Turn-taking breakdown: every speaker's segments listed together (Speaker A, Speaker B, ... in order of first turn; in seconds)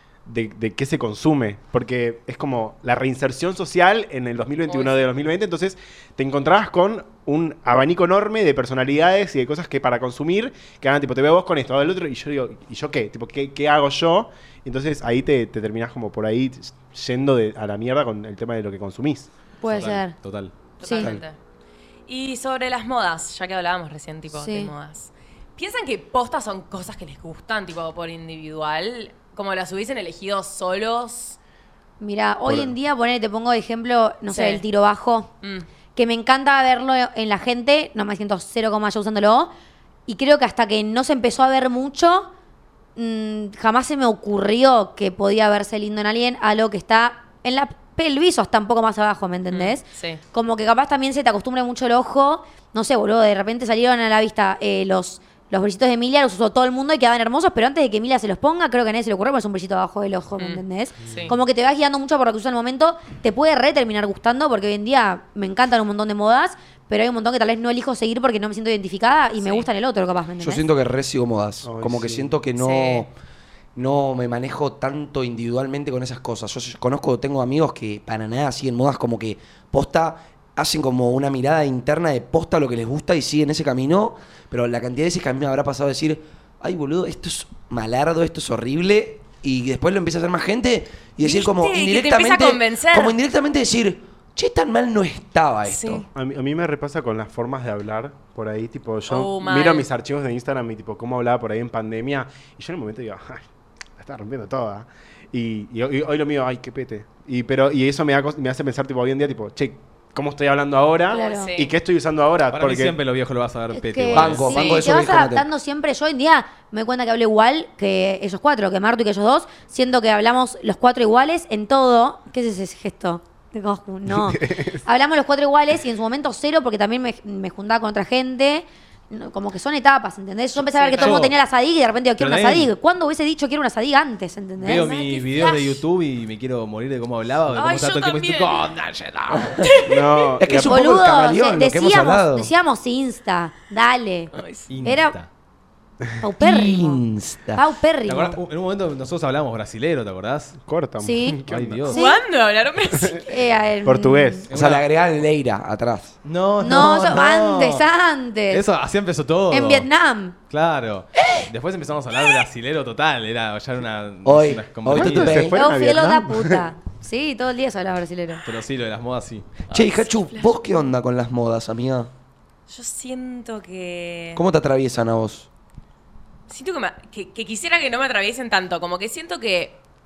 Speaker A: 0.2-19.3, 32.5-32.7, 71.6-72.3, 96.2-103.5, 104.0-113.0, 124.1-124.8, 139.8-140.9, 150.7-151.9, 153.8-154.5, 164.9-166.7
Speaker B: 4.7-5.0, 20.8-21.4, 22.1-31.4, 34.3-34.6, 35.4-35.7, 49.5-50.2, 60.4-61.4, 69.4-69.7, 72.6-73.1, 91.2-93.2, 95.7-96.1, 99.1-99.9, 111.1-111.7, 130.6-131.3, 134.7-135.8, 137.5-138.7, 139.6-140.4, 144.3-144.7, 151.9-153.3, 169.7-170.6, 172.7-174.4, 176.5-179.8
Speaker C: 19.6-20.2, 20.8-21.2, 24.3-24.7, 32.0-35.3, 36.0-39.5, 40.1-42.3, 43.0-49.8, 50.3-70.6, 111.1-111.5, 113.7-134.9, 140.6-145.2, 146.2-147.0, 147.6-148.4, 151.0-152.2, 153.2-154.5, 156.6-158.6, 159.5-160.4, 165.5-168.4
Speaker D: 19.6-20.5, 112.5-114.9, 130.9-131.3, 132.2-132.7, 134.6-139.7, 144.7-145.3, 148.1-150.6, 151.5-152.0, 154.5-154.9, 156.2-157.8, 158.5-159.9, 160.5-165.5, 168.4-169.5
Speaker E: 70.4-73.1, 73.8-96.1, 114.1-115.5, 140.4-142.5, 146.4-147.7, 154.5-156.2, 161.2-161.5, 164.2-165.7, 169.7-172.1, 174.3-175.5